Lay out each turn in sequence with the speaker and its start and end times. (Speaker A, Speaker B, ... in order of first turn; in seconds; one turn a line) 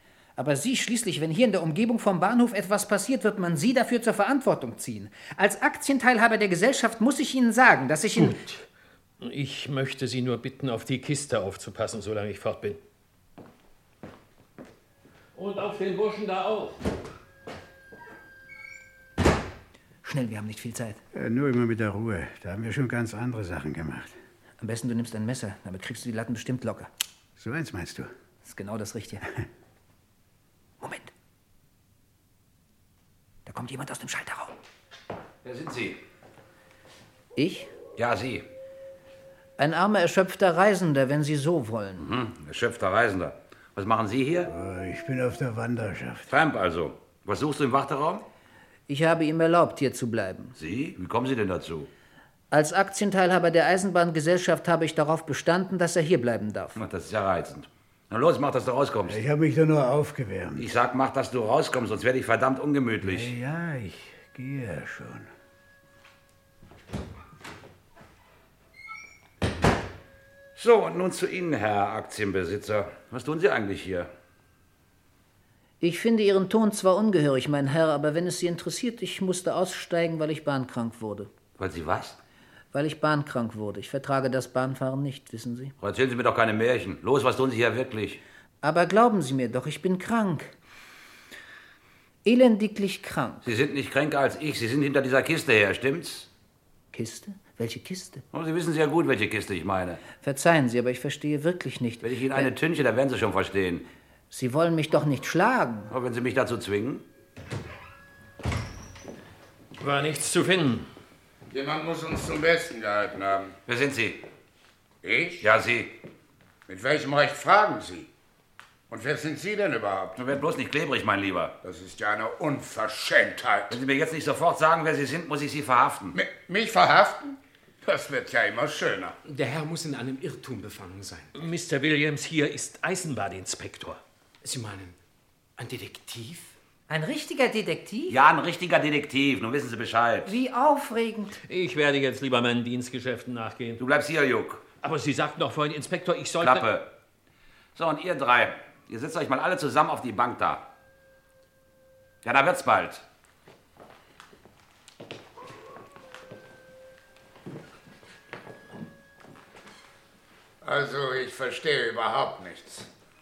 Speaker A: 0.4-8.4
Speaker B: 8.2-8.7
Speaker B: 9.2-12.8
Speaker B: 15.3-16.8
Speaker A: 20.0-21.0
Speaker C: 21.1-24.1
Speaker A: 24.6-26.9
Speaker C: 27.4-28.1
Speaker A: 28.4-29.2
Speaker A: 30.8-31.1
Speaker A: 33.5-34.5
Speaker D: 35.4-36.0
Speaker A: 37.4-37.7
Speaker D: 38.0-38.5
Speaker A: 39.6-42.1
Speaker D: 42.0-44.5
Speaker C: 44.5-46.3
Speaker D: 46.3-48.2
Speaker A: 48.9-50.6
Speaker D: 50.6-51.9
Speaker A: 52.5-56.8
Speaker D: 56.8-59.2
Speaker C: 59.1-60.7
Speaker D: 60.6-63.3
Speaker C: 63.0-65.3
Speaker D: 70.6-74.1
Speaker A: 75.8-81.3
Speaker D: 81.6-82.2
Speaker A: 82.7-85.7
Speaker D: 85.8-88.2
Speaker A: 88.6-90.5
Speaker A: 92.2-93.5
Speaker D: 93.5-96.3
Speaker A: 96.9-98.2
Speaker D: 98.3-100.0
Speaker A: 100.2-102.5
Speaker D: 102.0-103.9
Speaker A: 104.3-105.9
Speaker D: 105.9-107.0
Speaker B: 109.8-110.9
Speaker E: 111.5-113.5
Speaker D: 113.7-114.2
Speaker E: 115.0-115.4
Speaker D: 115.4-115.9
Speaker E: 116.7-118.1
Speaker E: 118.9-120.2
Speaker D: 120.2-121.5
Speaker E: 121.6-123.8
Speaker D: 123.7-126.2
Speaker E: 126.1-129.2
Speaker F: 129.2-131.3
Speaker B: 131.3-134.0
Speaker F: 134.4-135.0
Speaker F: 135.6-136.6
Speaker A: 136.9-138.2
Speaker D: 138.1-140.4
Speaker A: 140.3-141.4
Speaker B: 141.5-143.8
Speaker D: 143.8-144.7
Speaker B: 144.8-146.7
Speaker D: 146.4-146.9
Speaker D: 147.8-150.7
Speaker D: 152.2-153.0
Speaker E: 160.6-162.9